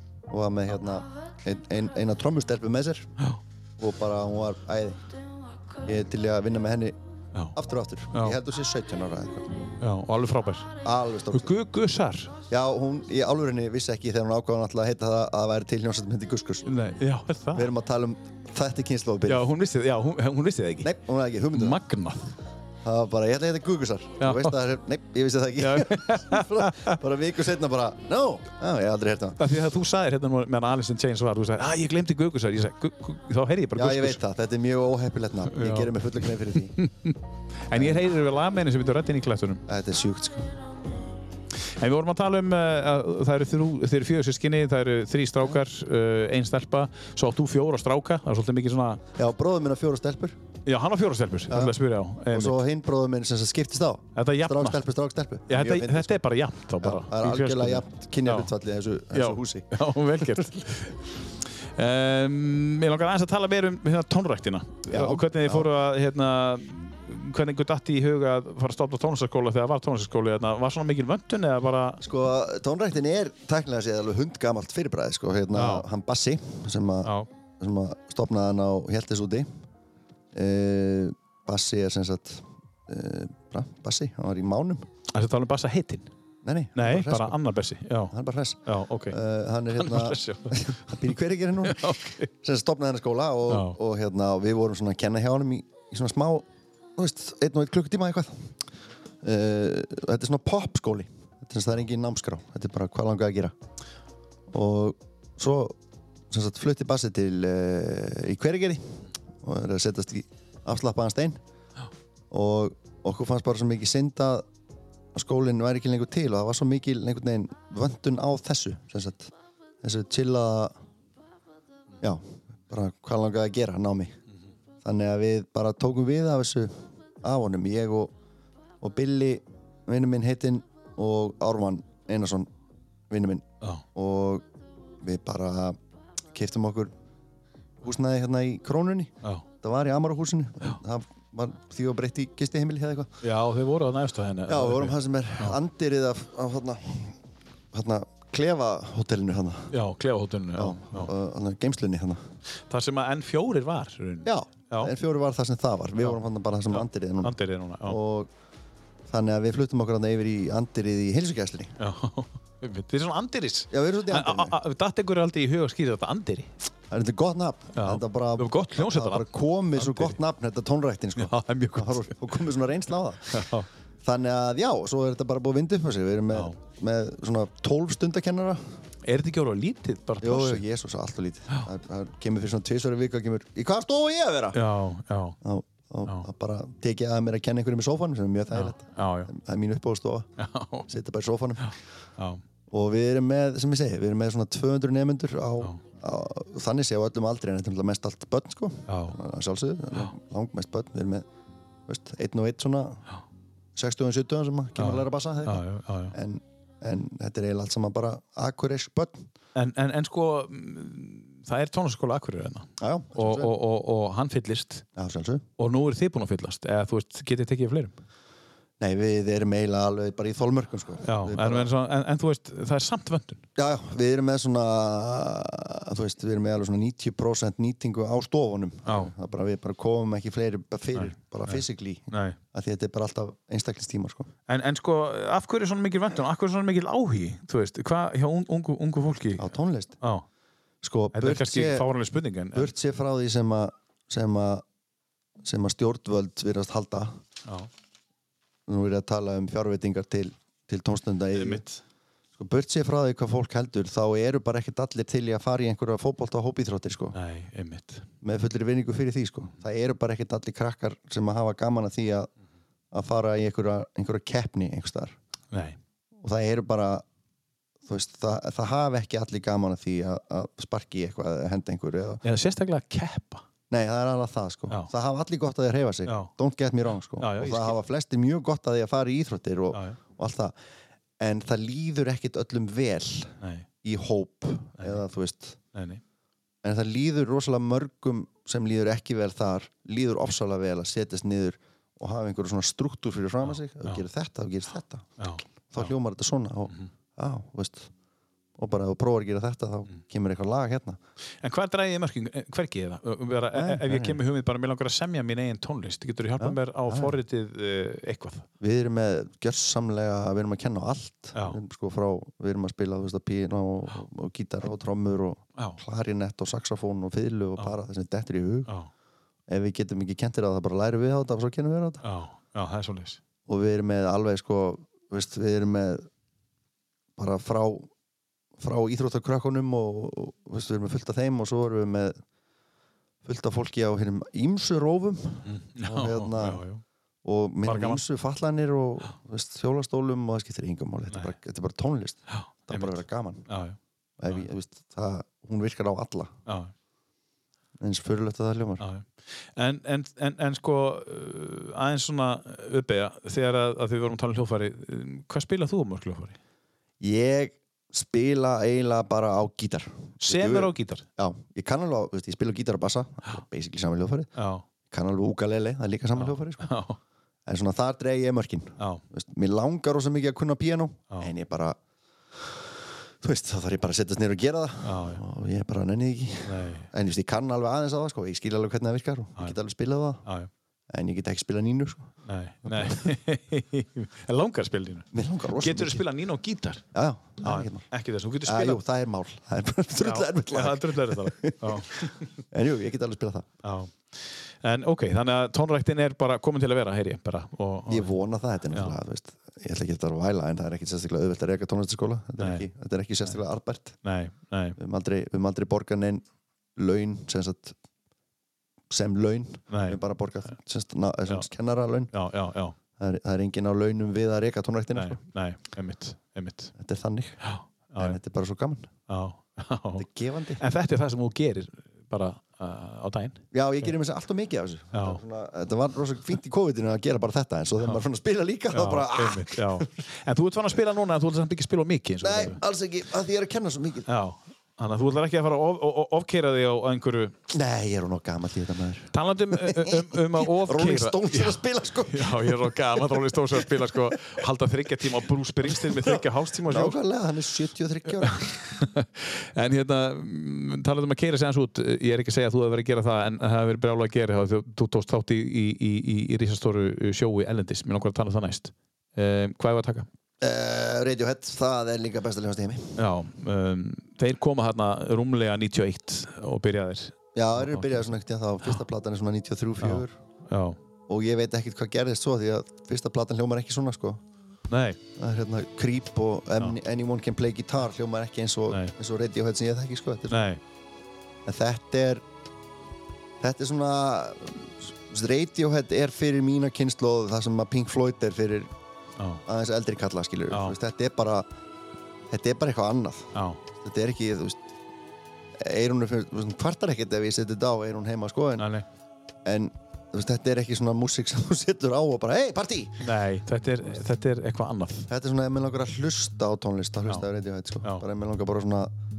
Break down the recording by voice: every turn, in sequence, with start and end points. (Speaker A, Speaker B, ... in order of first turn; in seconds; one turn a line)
Speaker A: 0.3-3.1
Speaker A: 3.8-5.0
Speaker A: 5.8-7.0
Speaker A: 7.5-9.7
Speaker B: 8.1-8.4
Speaker B: 9.8-10.7
Speaker A: 10.8-11.5
Speaker B: 11.3-12.3
Speaker A: 12.5-16.7
Speaker B: 16.6-17.7
Speaker A: 17.5-19.4
Speaker B: 19.3-20.9
Speaker A: 20.8-21.8
Speaker B: 21.5-22.3
Speaker A: 22.8-29.4
Speaker B: 24.2-24.5
Speaker B: 25.6-27.0
Speaker B: 29.4-34.2
Speaker A: 33.7-36.8
Speaker B: 35.5-35.9
Speaker B: 36.7-39.6
Speaker A: 37.7-38.0
Speaker A: 39.7-40.5
Speaker B: 41.8-49.0
Speaker A: 49.1-50.4
Speaker B: 50.6-52.6
Speaker A: 51.5-51.8
Speaker A: 52.3-56.2
Speaker B: 54.1-54.8
Speaker B: 55.5-58.5
Speaker A: 56.8-59.7
Speaker B: 59.1-61.0
Speaker B: 61.7-72.0
Speaker A: 64.9-65.7
Speaker A: 72.0-79.5
Speaker B: 75.5-75.9
Speaker A: 80.3-84.8
Speaker B: 85.1-86.1
Speaker A: 86.4-87.4
Speaker B: 86.8-88.1
Speaker A: 88.1-98.5
Speaker B: 88.7-89.2
Speaker B: 89.7-90.8
Speaker B: 91.6-92.3
Speaker B: 93.5-93.8
Speaker A: 99.2-103.5
Speaker A: 104.5-105.8
Speaker A: 106.3-111.4
Speaker A: 112.3-114.5
Speaker A: 115.1-120.8
Speaker A: 122.0-124.2
Speaker A: 124.8-128.1
Speaker A: 128.8-132.5
Speaker A: 133.1-134.4
Speaker A: 135.0-135.8
Speaker A: 136.3-136.9
Speaker A: 137.8-143.1
Speaker B: 143.2-145.6
Speaker A: 144.5-147.2
Speaker A: 147.7-149.7
Speaker B: 149.7-151.1
Speaker A: 150.6-152.2
Speaker B: 152.7-154.9
Speaker A: 154.2-158.3
Speaker B: 156.7-158.0
Speaker A: 159.1-161.7
Speaker B: 161.8-166.5
Speaker A: 163.7-164.6
Speaker A: 166.9-173.5
Speaker B: 167.7-170.2
Speaker B: 171.2-172.1
Speaker B: 173.3-173.7
Speaker A: 174.0-178.6
Speaker B: 179.0-180.6
Speaker A: 180.2-184.6
Speaker B: 184.5-185.4
Speaker A: 185.4-190.3
Speaker B: 188.5-189.3
Speaker B: 190.4-190.9
Speaker A: 190.9-191.7
Speaker B: 191.6-192.4
Speaker A: 192.7-201.3
Speaker B: 198.9-199.2
Speaker A: 201.9-203.0
Speaker A: 203.8-209.2
Speaker B: 204.8-206.1
Speaker B: 209.5-214.8
Speaker A: 212.8-213.5
Speaker A: 214.9-215.4
Speaker B: 215.6-217.9
Speaker A: 218.8-221.7
Speaker B: 221.0-223.4
Speaker A: 223.6-234.3
Speaker B: 228.8-229.1
Speaker B: 230.9-232.4
Speaker B: 234.5-239.5
Speaker A: 239.4-240.0
Speaker A: 240.8-241.9
Speaker B: 241.1-242.7
Speaker A: 242.5-244.6
Speaker A: 245.4-247.2
Speaker A: 248.7-251.6
Speaker B: 251.3-251.8
Speaker A: 252.4-257.1
Speaker B: 257.1-258.1
Speaker A: 258.2-262.3
Speaker A: 262.9-265.1
Speaker B: 265.5-265.8
Speaker A: 266.2-267.0
Speaker A: 267.9-272.2
Speaker B: 272.2-273.4
Speaker A: 273.7-280.5
Speaker B: 277.2-277.8
Speaker B: 279.7-280.0
Speaker A: 281.2-285.6
Speaker B: 283.4-283.7
Speaker B: 285.7-286.0
Speaker A: 286.6-295.1
Speaker B: 293.4-294.0
Speaker B: 295.2-295.9
Speaker A: 295.7-297.9
Speaker A: 298.6-301.0
Speaker B: 301.4-308.5
Speaker A: 303.5-304.2
Speaker A: 306.4-307.1
Speaker A: 308.6-318.7
Speaker B: 311.3-311.6
Speaker A: 319.5-322.0
Speaker B: 322.0-323.2
Speaker A: 323.5-326.1
Speaker A: 327.2-327.9
Speaker A: 328.6-332.2
Speaker A: 333.2-336.6
Speaker B: 335.4-336.8
Speaker A: 337.2-343.4
Speaker B: 337.6-338.0
Speaker B: 342.3-343.8
Speaker A: 344.2-346.3
Speaker B: 346.5-346.7
Speaker A: 347.8-348.8
Speaker B: 348.8-356.4
Speaker A: 357.0-364.3
Speaker B: 360.2-361.1
Speaker B: 364.4-364.6
Speaker A: 364.9-366.7
Speaker B: 366.1-367.0
Speaker A: 367.4-371.8
Speaker A: 372.4-372.6
Speaker A: 373.2-380.2
Speaker B: 374.8-375.2
Speaker B: 376.4-376.9
Speaker A: 380.9-382.1
Speaker B: 382.2-386.8
Speaker A: 382.6-383.1
Speaker A: 385.1-386.0
Speaker A: 386.9-387.8
Speaker B: 387.4-388.8
Speaker A: 388.4-393.5
Speaker B: 390.0-392.3
Speaker B: 393.6-398.1
Speaker A: 397.9-404.0
Speaker B: 402.4-402.6
Speaker B: 404.0-404.8
Speaker A: 404.8-406.2
Speaker A: 406.8-407.8
Speaker A: 408.9-412.1
Speaker B: 409.7-410.0
Speaker B: 412.1-412.7
Speaker A: 413.0-415.2
Speaker B: 414.9-416.7
Speaker A: 416.8-417.4
Speaker B: 417.4-418.2
Speaker A: 418.0-418.9
Speaker B: 419.1-420.1
Speaker A: 420.0-420.6
Speaker B: 420.6-423.4
Speaker A: 423.5-429.9
Speaker B: 424.9-425.2
Speaker B: 428.7-432.6
Speaker A: 432.2-434.1
Speaker B: 434.1-437.4
Speaker A: 437.5-444.1
Speaker B: 439.1-447.0
Speaker A: 445.7-448.6
Speaker B: 448.2-460.1
Speaker A: 460.4-463.0
Speaker B: 463.0-468.1
Speaker A: 467.3-470.1
Speaker B: 469.8-470.8
Speaker A: 471.1-474.2
Speaker B: 474.7-475.0
Speaker A: 475.2-480.4
Speaker B: 480.3-480.6
Speaker A: 481.4-482.2
Speaker A: 483.4-488.7
Speaker A: 489.4-491.5
Speaker B: 490.5-490.8
Speaker A: 492.3-494.6
Speaker B: 493.3-493.6
Speaker A: 495.6-498.7
Speaker B: 498.6-498.9
Speaker A: 499.4-503.1
Speaker B: 503.0-505.1
Speaker A: 505.1-508.9